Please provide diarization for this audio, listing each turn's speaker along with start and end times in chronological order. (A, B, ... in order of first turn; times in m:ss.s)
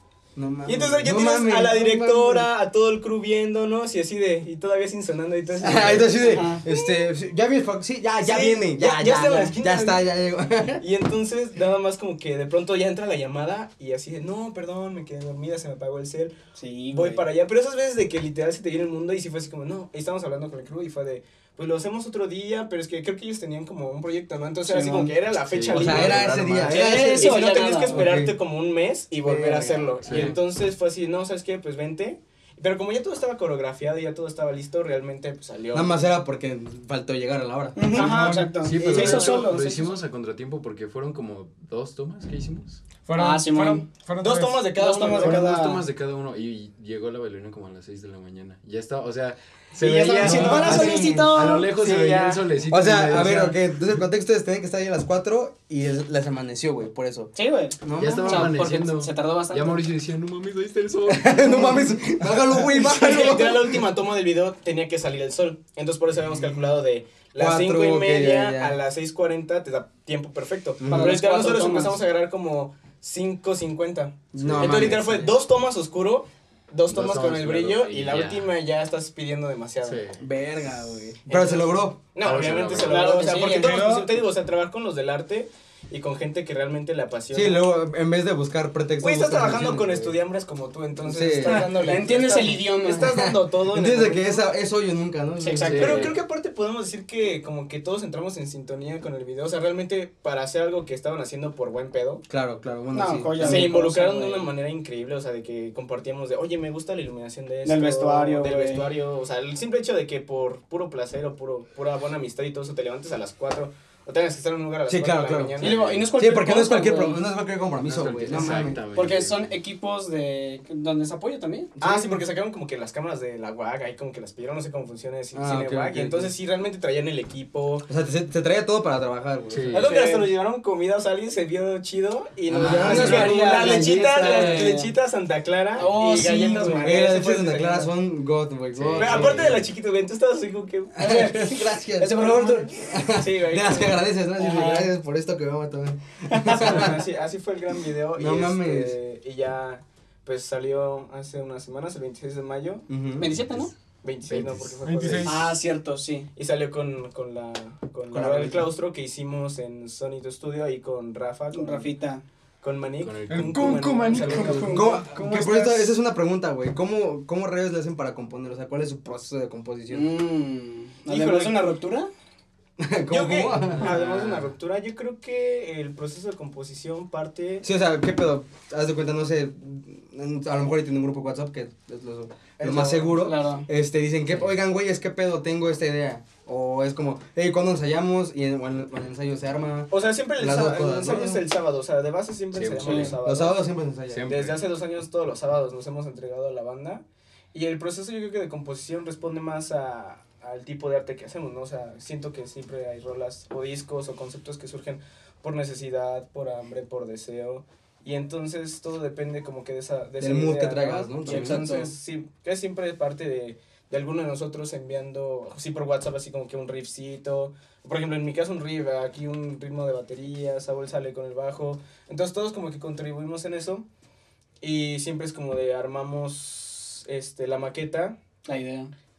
0:00.4-0:02.5 A
0:00.6-0:07.0 B
0:05.6-0:10.8 A
0:06.2-0:06.6 C
0:08.2-0:10.0 B
0:10.8-0:16.4 B
0:16.6-0:17.2 C
0:16.9-0:36.0 B
0:24.6-0:25.1 C
0:25.5-0:26.7 D
0:25.7-0:28.3 A
0:26.6-0:28.0 C
0:29.2-0:30.4 A
0:30.0-0:30.3 D
0:35.7-0:37.8 A
0:37.8-0:39.8 C
0:37.9-0:38.7 E
0:38.0-0:38.2 B
0:38.6-0:42.8 D
0:38.7-0:39.8 B
0:43.0-0:44.8 E
0:43.2-0:43.8 C
0:44.2-0:45.6 B
0:44.8-0:45.8 C
0:45.2-0:53.6 D
0:49.8-0:52.4 C
0:50.2-0:51.6 A
0:52.7-0:58.6 A
0:57.3-0:59.8 C
0:58.0-1:01.9 D
1:01.1-1:03.8 A
1:02.6-1:20.0 B
1:07.4-1:08.8 A
1:10.8-1:11.1 A
1:10.9-1:12.0 C
1:14.3-1:15.4 A
1:14.4-1:15.0 D
1:16.9-1:18.5 D
1:19.8-1:20.2 D
1:20.2-1:22.0 A
1:21.3-1:27.6 B
1:22.2-1:23.2 D
1:22.8-1:24.0 C
1:23.4-1:24.0 E
1:27.3-1:30.1 A
1:29.0-1:34.5 B
1:31.0-1:31.9 A
1:31.4-1:33.1 C
1:33.1-1:36.1 A
1:35.4-1:36.1 C
1:35.6-1:36.1 D
1:35.7-1:42.2 B
1:42.3-1:43.8 A
1:42.9-1:44.5 C
1:43.4-1:55.8 B
1:47.6-1:48.9 C
1:54.9-1:55.6 A
1:55.6-1:57.2 C
1:55.6-1:56.1 D
1:56.1-1:58.8 A
1:57.8-1:59.5 D
1:58.9-2:01.7 C
2:01.8-2:02.2 A
2:01.8-2:07.8 B
2:05.3-2:06.3 A
2:07.9-2:09.8 A
2:09.5-2:09.9 D
2:09.7-2:17.9 B
2:09.8-2:10.3 C
2:12.5-2:14.6 A
2:12.5-2:13.3 D
2:12.7-2:14.9 C
2:15.8-2:17.0 C
2:16.8-2:19.5 A
2:18.7-2:19.6 D
2:19.0-2:24.9 B
2:21.0-2:27.0 A
2:21.0-2:21.4 C
2:22.0-2:22.7 C
2:26.3-2:26.9 C
2:26.5-2:32.8 B
2:28.2-2:28.9 A
2:32.9-2:33.5 A
2:33.2-2:33.7 C
2:34.0-2:35.4 B
2:34.3-2:35.3 D
2:34.8-2:35.5 E
2:35.2-2:36.3 C
2:36.4-2:41.9 B
2:38.1-2:38.7 A
2:41.5-2:42.2 C
2:42.6-2:45.0 B
2:43.0-2:44.6 D
2:43.3-2:44.9 E
2:44.2-2:45.9 C
2:44.7-2:50.0 A
2:49.9-2:52.1 C
2:51.1-2:51.6 B
2:52.8-2:53.9 A
2:53.1-2:57.6 B
2:53.8-2:54.5 D
2:57.6-3:11.4 A
3:02.6-3:03.3 B
3:03.2-3:03.7 C
3:09.9-3:13.6 B
3:12.5-3:13.2 D
3:12.8-3:13.1 C
3:13.2-3:14.3 A
3:14.1-3:14.7 D
3:14.3-3:17.0 B
3:17.5-3:43.8 B
3:30.2-3:31.7 A
3:31.2-3:31.9 C
3:44.6-3:48.2 B
3:48.4-3:48.9 C